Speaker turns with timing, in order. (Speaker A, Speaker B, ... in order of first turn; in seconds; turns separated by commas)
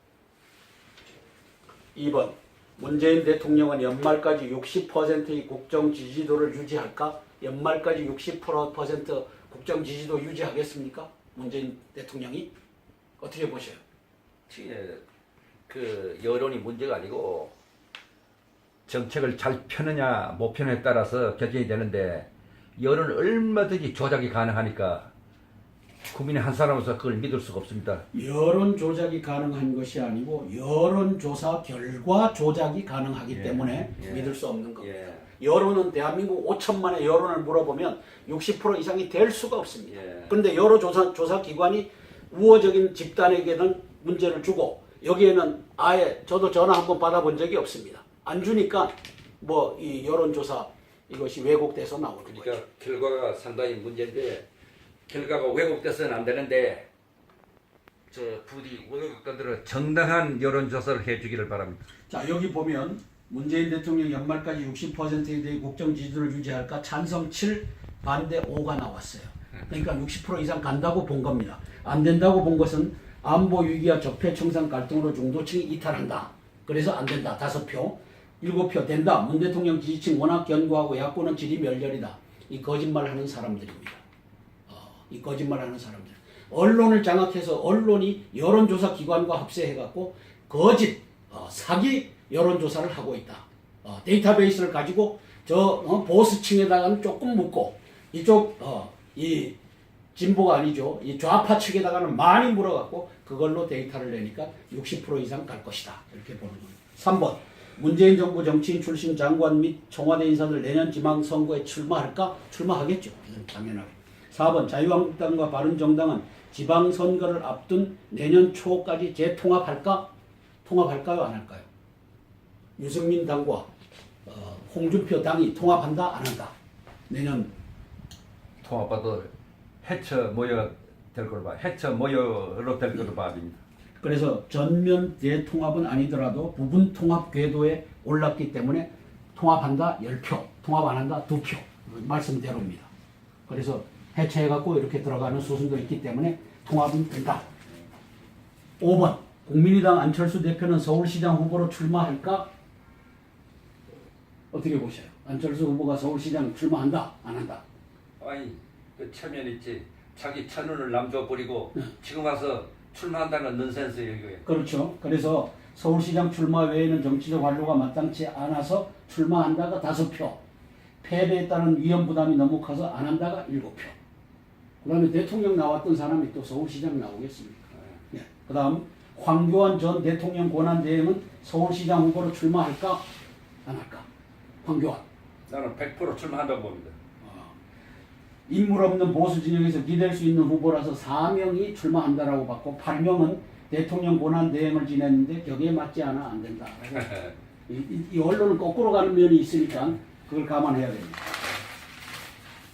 Speaker A: 1.9-12.5, Speaker A: 13.2-13.8, Speaker B: 14.5-15.0, Speaker B: 15.7-17.5, Speaker B: 18.9-25.1, Speaker B: 26.0-28.0, Speaker A: 28.1-52.6, Speaker B: 33.3-35.2, Speaker B: 39.9-40.3, Speaker B: 52.3-54.5, Speaker B: 55.1-56.9, Speaker B: 58.1-61.8, Speaker A: 62.1-84.0, Speaker A: 84.7-99.5, Speaker A: 100.1-120.1, Speaker A: 120.6-121.7, Speaker A: 122.8-123.7, Speaker A: 124.2-126.5, Speaker A: 127.1-127.5, Speaker B: 128.6-129.3, Speaker B: 129.8-133.6, Speaker A: 134.0-142.9, Speaker A: 143.5-147.4, Speaker A: 148.8-152.5, Speaker A: 154.5-157.6, Speaker B: 158.2-164.4, Speaker A: 164.4-170.4, Speaker A: 171.0-173.9, Speaker A: 174.8-183.1, Speaker A: 183.6-184.1, Speaker A: 184.6-185.0, Speaker B: 185.5-186.9, Speaker A: 187.2-187.5, Speaker A: 188.5-201.2